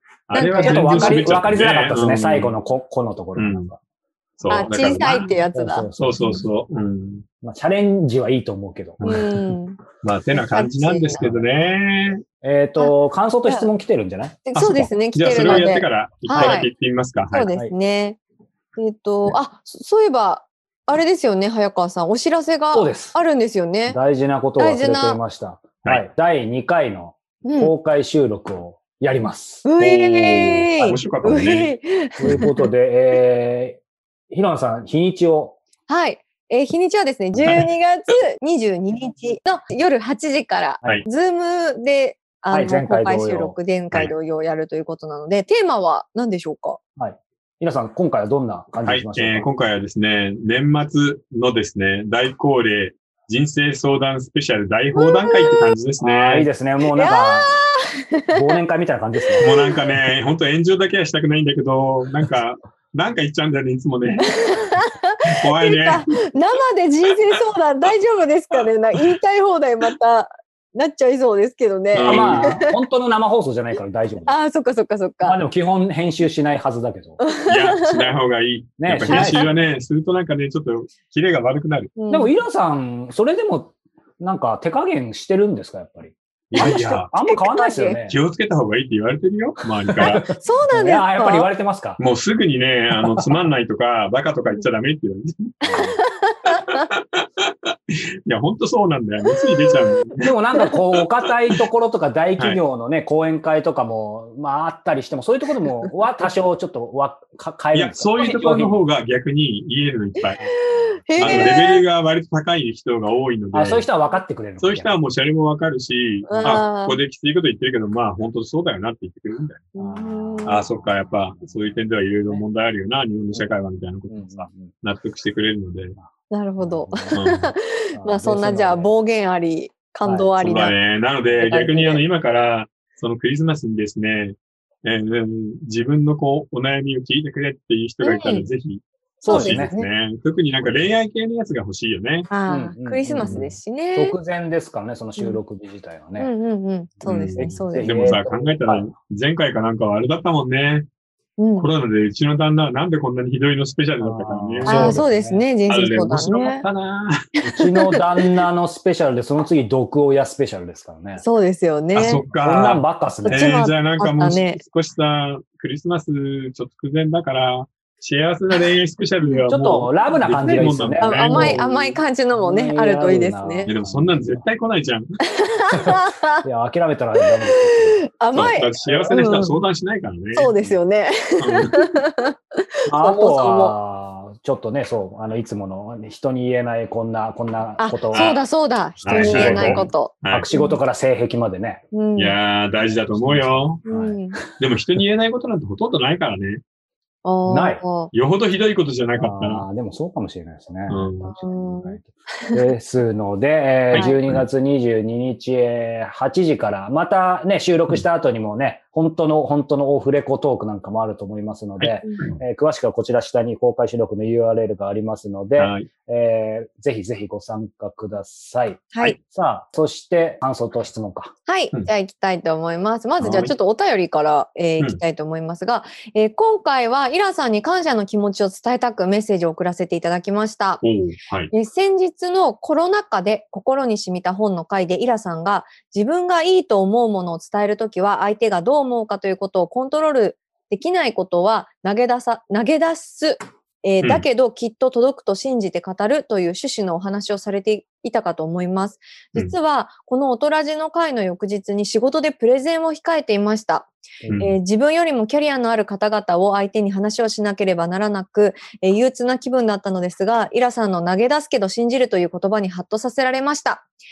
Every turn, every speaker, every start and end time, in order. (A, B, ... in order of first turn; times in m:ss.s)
0:00.3-0:02.6 A
0:00.3-0:01.4 B
0:00.5-0:03.8 C
0:03.4-0:03.7 A
0:04.4-0:05.4 A
0:04.5-0:06.4 B
0:05.5-0:06.2 C
0:06.0-0:07.3 A
0:07.4-0:09.1 C
0:09.0-0:09.4 A
0:09.0-0:09.8 B
0:10.0-0:12.2 A
0:10.3-0:11.3 B
0:11.2-0:11.5 C
0:12.4-0:14.4 C
0:14.5-0:16.7 B
0:14.6-0:17.5 A
0:15.4-0:15.7 C
0:16.3-0:16.6 C
0:17.3-0:18.2 B
0:18.8-0:24.0 B
0:22.7-0:23.2 C
0:23.9-0:29.6 C
0:24.6-0:25.2 B
0:27.4-0:27.7 B
0:29.6-0:32.7 B
0:29.8-0:31.7 A
0:32.2-0:35.6 C
0:35.9-0:46.8 B
0:37.4-0:37.7 A
0:42.5-0:43.6 C
0:47.0-0:49.5 C
0:48.9-0:56.5 A
0:54.9-0:55.8 B
0:56.0-0:57.5 C
0:57.0-0:58.6 B
0:58.3-0:59.5 C
0:59.2-0:59.9 B
0:59.4-1:04.3 A
1:04.2-1:12.7 B
1:05.3-1:06.1 A
1:08.6-1:09.2 A
1:11.9-1:12.6 A
1:12.0-1:14.4 C
1:14.3-1:15.4 B
1:15.2-1:17.2 C
1:17.2-1:18.0 B
1:17.5-1:21.9 A
1:18.8-1:19.5 C
1:19.1-1:19.5 B
1:22.0-1:22.4 B
1:22.1-1:28.2 C
1:26.5-1:27.1 A
1:26.6-1:28.0 B
1:28.1-1:30.3 A
1:29.9-1:32.0 C
1:30.4-1:31.5 B
1:32.0-1:35.6 A
1:33.0-1:33.4 C
1:35.6-1:36.0 C
1:35.8-1:36.9 B
1:36.5-1:40.3 A
1:39.3-1:39.8 B
1:40.2-1:48.8 C
1:41.0-1:41.6 A
1:47.7-1:50.4 A
1:50.3-1:51.8 B
1:50.4-1:51.6 C
1:51.2-1:53.9 A
1:53.5-1:54.9 C
1:54.6-1:59.7 A
1:56.3-1:57.0 B
1:56.3-1:56.7 C
1:59.8-2:00.7 B
1:59.8-2:02.4 C
2:00.4-2:06.0 A
2:04.1-2:04.7 C
2:06.0-2:08.9 C
2:06.3-2:10.8 B
2:07.1-2:07.5 A
2:10.0-2:10.3 C
2:10.4-2:22.3 A
2:11.4-2:12.0 B
2:18.0-2:18.5 B
2:19.2-2:19.7 C
2:19.3-2:19.9 B
2:22.3-2:24.2 B
2:22.5-2:26.3 C
2:23.3-2:23.5 A
2:26.2-2:28.2 B
2:27.0-2:28.9 C
2:27.1-2:30.9 A
2:31.4-2:31.7 B
2:31.6-2:35.0 A
2:34.0-2:35.4 C
2:34.6-2:36.6 B
2:35.7-2:37.2 A
2:37.4-2:38.0 B
2:37.4-2:41.2 C
2:41.2-2:42.2 B
2:42.0-2:51.9 A
2:42.3-2:43.4 C
2:43.2-2:44.6 B
2:49.5-2:51.7 C
2:51.0-2:53.7 B
2:52.3-2:54.5 C
2:53.7-2:55.2 A
2:55.3-2:56.4 B
2:55.7-2:59.1 C
2:57.5-2:59.6 B
2:58.3-3:00.5 A
3:00.3-3:03.8 B
3:01.4-3:01.7 A
3:02.9-3:08.4 C
3:07.8-3:10.8 B
3:08.1-3:08.4 A
3:09.0-3:10.5 A
3:09.1-3:11.8 C
3:11.9-3:12.4 B
3:12.2-3:13.8 A
3:12.9-3:14.5 C
3:13.9-3:14.4 B
3:14.6-3:16.6 A
3:17.2-3:18.1 B
3:17.5-3:17.8 C
3:18.1-3:19.6 A
3:19.2-3:41.3 C
3:20.9-3:21.3 A
3:21.3-3:22.6 B
3:23.9-3:24.4 A
3:23.9-3:24.2 B
3:31.8-3:32.4 A
3:35.6-3:35.9 A
3:41.5-3:50.8 B
3:43.2-3:43.5 A
3:50.8-3:51.5 A
3:51.5-4:23.9 B
4:14.2-4:14.5 C
4:14.3-4:14.6 A